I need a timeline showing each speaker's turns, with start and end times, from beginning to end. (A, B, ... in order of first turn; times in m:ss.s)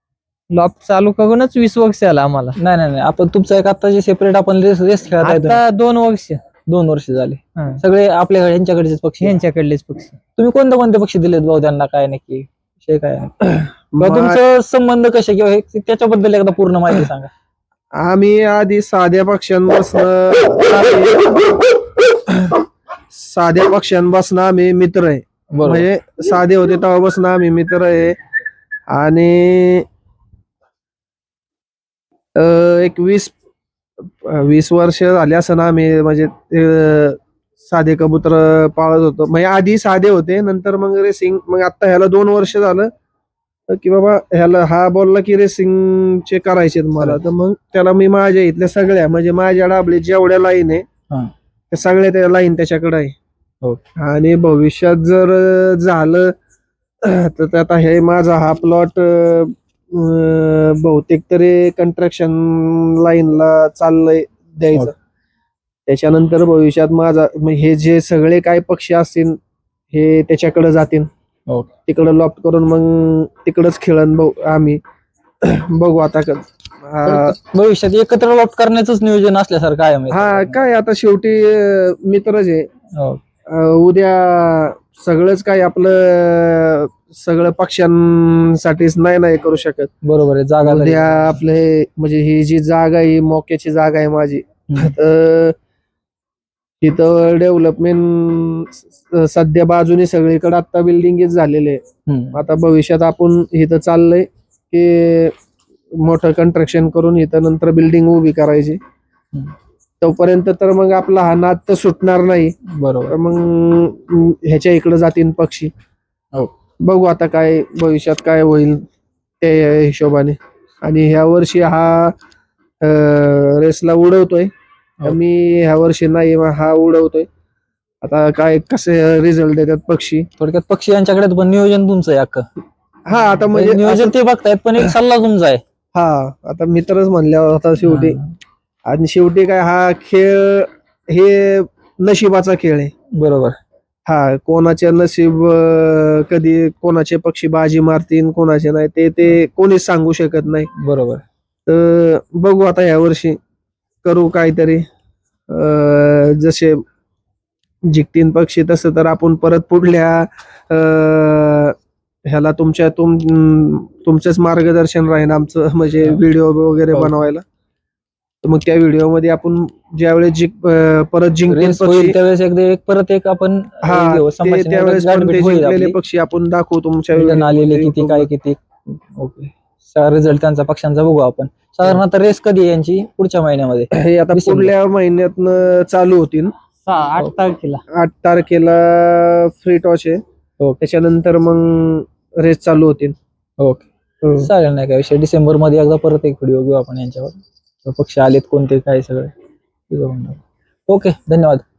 0:00.5-0:02.6 A
0:02.6-0:05.6 B
0:05.2-0:06.4 A
0:06.7-0:09.4 B
0:09.2-0:10.2 A
0:10.4-0:13.4 B
0:13.9-0:14.4 C
0:14.0-0:17.3 B
0:18.0-0:21.7 C
0:22.3-0:22.6 C
0:23.1-0:28.2 C
0:25.5-0:25.8 B
0:28.9-0:29.8 C
0:32.4-0:33.3 C
0:34.2-0:42.9 C
0:43.7-0:50.8 C
0:51.7-0:53.1 C
0:54.0-0:56.3 C
0:57.0-1:04.9 C
1:05.9-1:09.4 C
1:09.9-1:11.1 C
1:11.9-1:14.8 C
1:15.4-1:17.3 C
1:17.0-1:20.6 B
1:20.1-1:22.7 C
1:23.0-1:23.2 B
1:23.5-1:29.9 C
1:30.0-1:31.4 B
1:30.6-1:35.5 C
1:36.8-1:41.8 C
1:42.1-1:42.4 B
1:42.3-1:45.3 C
1:46.0-1:48.8 C
1:50.0-1:52.5 C
1:52.8-1:53.2 B
1:53.1-1:55.7 C
1:56.8-1:58.8 C
1:59.4-2:02.1 C
2:02.8-2:04.5 C
2:05.0-2:07.3 C
2:08.0-2:10.2 C
2:10.4-2:12.4 B
2:13.1-2:14.2 C
2:13.5-2:15.6 B
2:15.9-2:18.2 C
2:17.8-2:18.3 B
2:18.9-2:22.9 C
2:23.2-2:23.6 B
2:24.1-2:30.7 C
2:30.8-2:31.2 B
2:31.7-2:33.4 C
2:34.0-2:34.8 C
2:35.5-2:36.8 C
2:37.9-2:41.7 C
2:42.3-2:47.4 C
2:48.4-2:52.2 C
2:51.5-2:56.0 B
2:53.8-2:58.3 C
2:57.1-3:04.7 B
3:03.9-3:06.5 C
3:06.8-3:07.8 A
3:07.9-3:10.2 C
3:10.8-3:13.2 C
3:13.6-3:13.9 B
3:14.2-3:14.5 C
3:14.4-3:19.3 B
3:19.9-3:21.6 B